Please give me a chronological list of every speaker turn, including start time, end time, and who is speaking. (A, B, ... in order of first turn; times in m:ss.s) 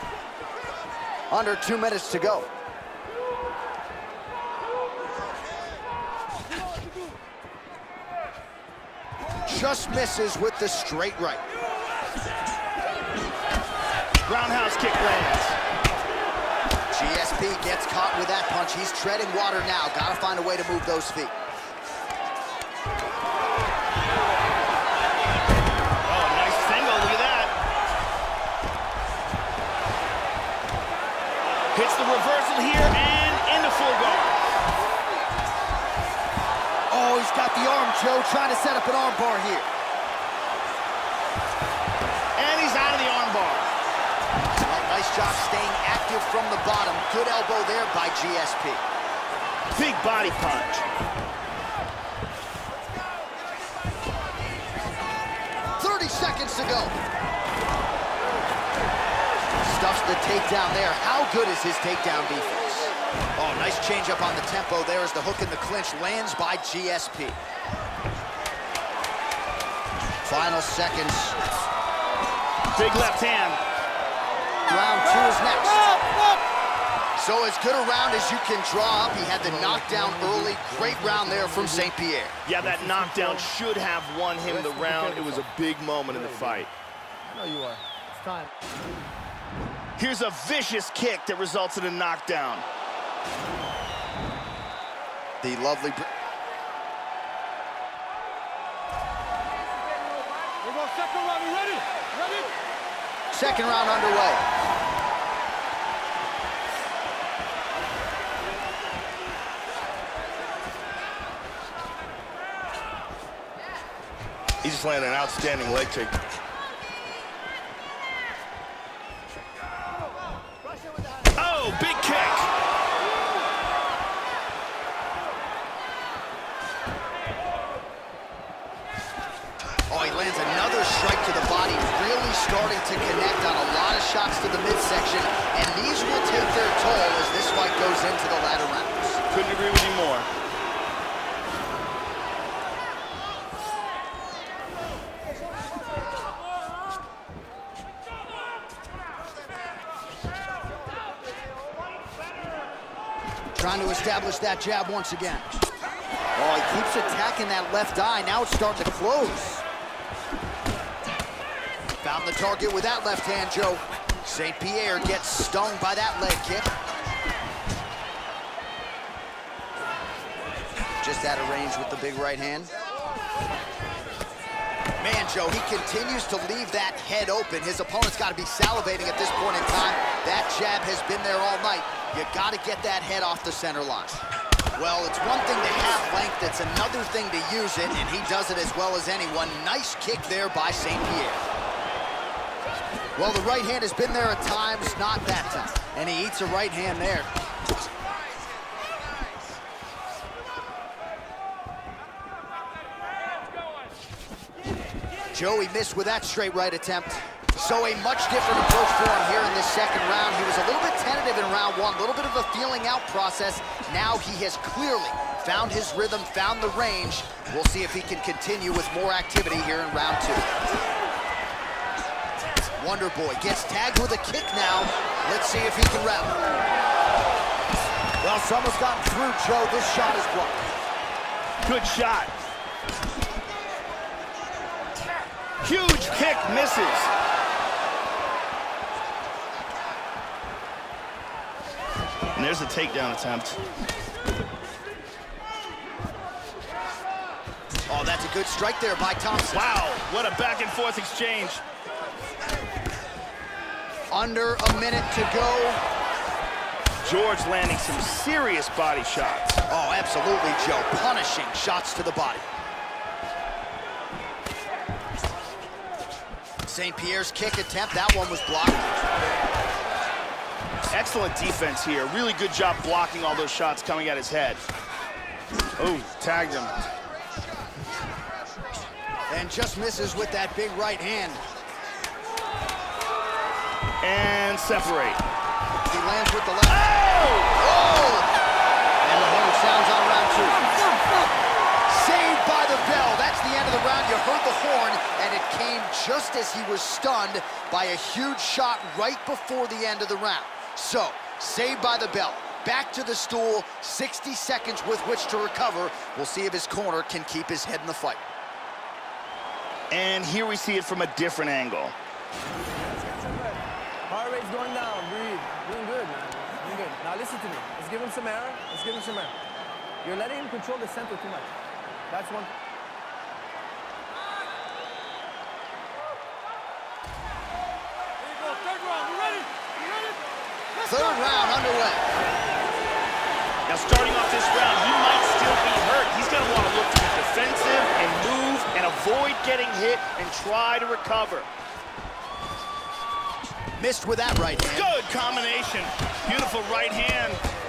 0:01.3-0:02.5 A
0:09.5-0:11.4 A
0:14.2-0:15.6 B
0:16.9-0:21.3 A
0:26.0-0:27.5 B
0:31.7-0:34.4 B
0:36.9-0:39.7 A
0:42.4-0:43.7 B
0:44.6-0:48.8 A
0:49.7-0:50.9 B
0:55.8-0:57.0 A
0:59.6-1:07.4 A
1:10.2-1:11.7 A
1:12.7-1:13.6 B
1:14.7-1:16.1 A
1:17.2-1:22.4 A
1:19.4-1:21.9 C
1:22.4-1:26.7 B
1:22.6-1:23.5 C
1:24.4-1:25.4 C
1:26.1-1:26.7 C
1:27.2-1:28.5 C
1:30.0-1:32.6 B
1:35.4-1:36.1 A
1:40.7-1:41.7 C
1:43.3-1:44.4 A
1:54.6-1:56.2 B
2:01.4-2:02.5 B
2:09.9-2:19.2 A
2:19.3-2:20.3 B
2:33.6-2:35.5 A
2:36.4-2:39.6 A
2:42.0-2:46.7 A
2:51.0-2:52.7 A
2:55.0-3:04.2 A
3:04.8-3:11.4 A
3:13.2-3:17.3 A
3:25.3-3:40.4 A
3:42.8-3:46.4 A
3:48.2-3:50.6 A
3:51.6-3:52.3 B
3:55.6-3:57.1 B
4:02.4-4:03.6 B
4:07.9-4:09.7 A
4:09.5-4:11.6 B
4:14.1-4:15.8 A
4:17.0-4:19.6 B
4:19.7-4:22.4 A
4:26.7-4:28.9 A
4:30.9-4:34.6 B
4:35.8-4:36.7 B
4:39.3-4:41.4 A
4:44.0-4:45.2 B
4:45.9-4:46.9 A
4:46.7-4:47.6 B
4:47.6-4:48.3 A
4:49.0-4:50.7 A
4:51.9-5:08.2 A
5:09.9-5:12.0 B
5:13.2-5:13.6 C
5:14.1-5:19.3 C
5:20.0-5:21.5 C
5:22.1-5:22.5 C
5:28.6-5:29.5 C
5:30.8-5:32.0 A
5:33.7-5:41.5 B
5:43.8-5:44.9 A
5:44.6-5:47.4 B